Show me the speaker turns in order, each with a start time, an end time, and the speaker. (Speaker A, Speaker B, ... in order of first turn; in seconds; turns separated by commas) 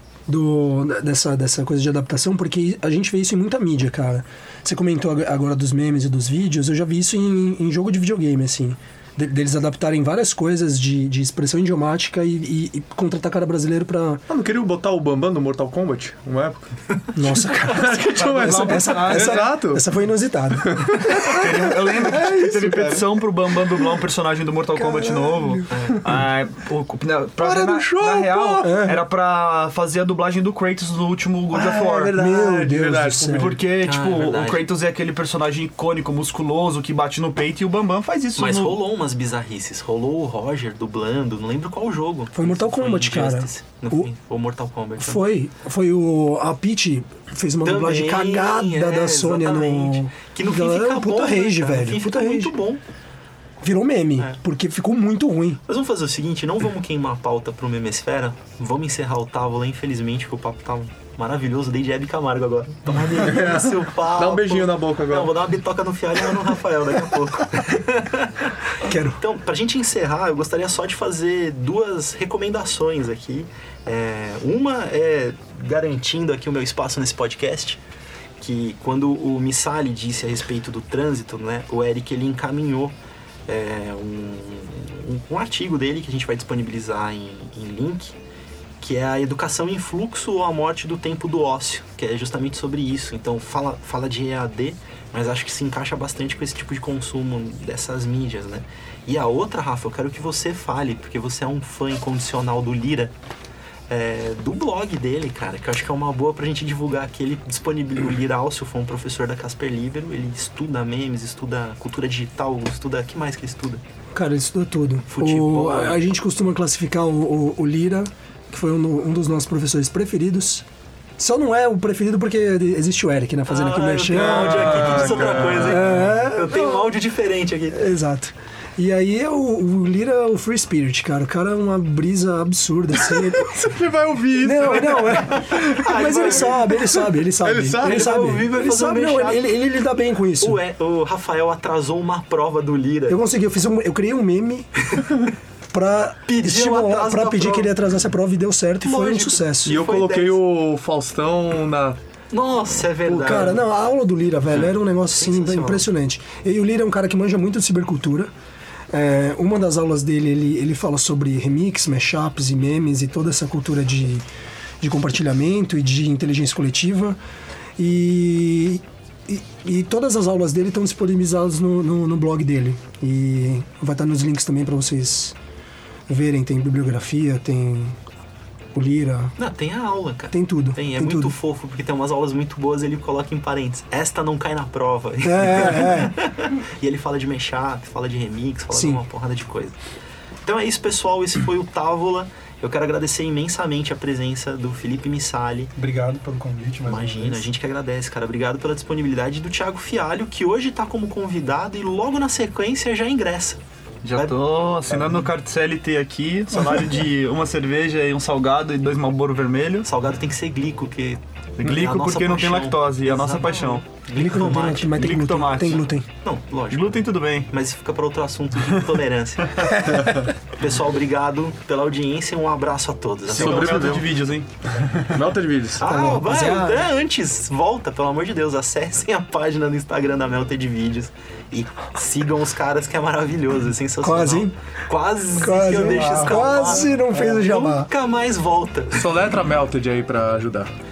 Speaker A: 0.3-14.2, Speaker B: 14.3-19.9, Speaker A: 17.2-22.5, Speaker C: 18.1-19.5, Speaker B: 20.5-21.4, Speaker C: 21.4-32.1, Speaker B: 22.1-23.1, Speaker A: 24.8-25.7, Speaker D: 25.7-26.0, Speaker B: 27.4-28.8, Speaker A: 28.6-29.0, Speaker B: 31.5-33.6, Speaker A: 32.1-33.5, Speaker C: 33.4-38.8, Speaker D: 33.8-34.6, Speaker D: 38.4-45.2, Speaker A: 42.4-44.1, Speaker A: 45.0-52.5, Speaker D: 47.6-52.8, Speaker A: 53.6-55.6, Speaker D: 55.7-77.8, Speaker B: 63.1-65.3, Speaker A: 68.8-69.2, Speaker D: 78.4-82.9, Speaker D: 83.5-88.2, Speaker D: 88.8-103.1, Speaker D: 103.9-113.8, Speaker A: 114.1-120.6, Speaker D: 115.1-116.0, Speaker A: 121.2-126.9, Speaker D: 123.5-127.8, Speaker B: 124.1-126.1, Speaker A: 127.7-133.5, Speaker B: 133.1-138.4, Speaker A: 134.4-140.6, Speaker D: 135.8-136.7, Speaker D: 137.8-139.5, Speaker D: 140.4-143.2, Speaker A: 143.1-144.7, Speaker A: 145.7-149.7, Speaker D: 146.2-147.7, Speaker D: 148.8-150.4, Speaker B: 149.7-152.0, Speaker D: 152.3-153.6, Speaker B: 153.1-153.6, Speaker A: 153.2-158.3, Speaker D: 154.5-155.9, Speaker A: 158.9-164.2, Speaker A: 164.8-167.2, Speaker A: 167.8-175.3, Speaker A: 176.1-178.0, Speaker A: 178.7-179.3, Speaker D: 179.4-189.7, Speaker A: 180.3-181.3, Speaker A: 185.2-186.1, Speaker A: 188.7-189.0, Speaker D: 190.4-195.7, Speaker E: 195.7-197.5, Speaker D: 196.9-203.6, Speaker C: 204.0-209.9, Speaker E: 204.9-205.2, Speaker D: 209.8-215.2, Speaker C: 211.6-213.8, Speaker A: 214.1-216.1, Speaker C: 214.9-215.9, Speaker D: 216.2-224.0, Speaker C: 216.7-217.5, Speaker C: 223.3-225.2, Speaker B: 223.3-224.1, Speaker B: 225.1-226.0, Speaker D: 225.8-239.1, Speaker A: 225.8-226.8, Speaker A: 234.0-234.6, Speaker A: 235.4-237.9, Speaker E: 235.7-236.9, Speaker B: 238.9-240.7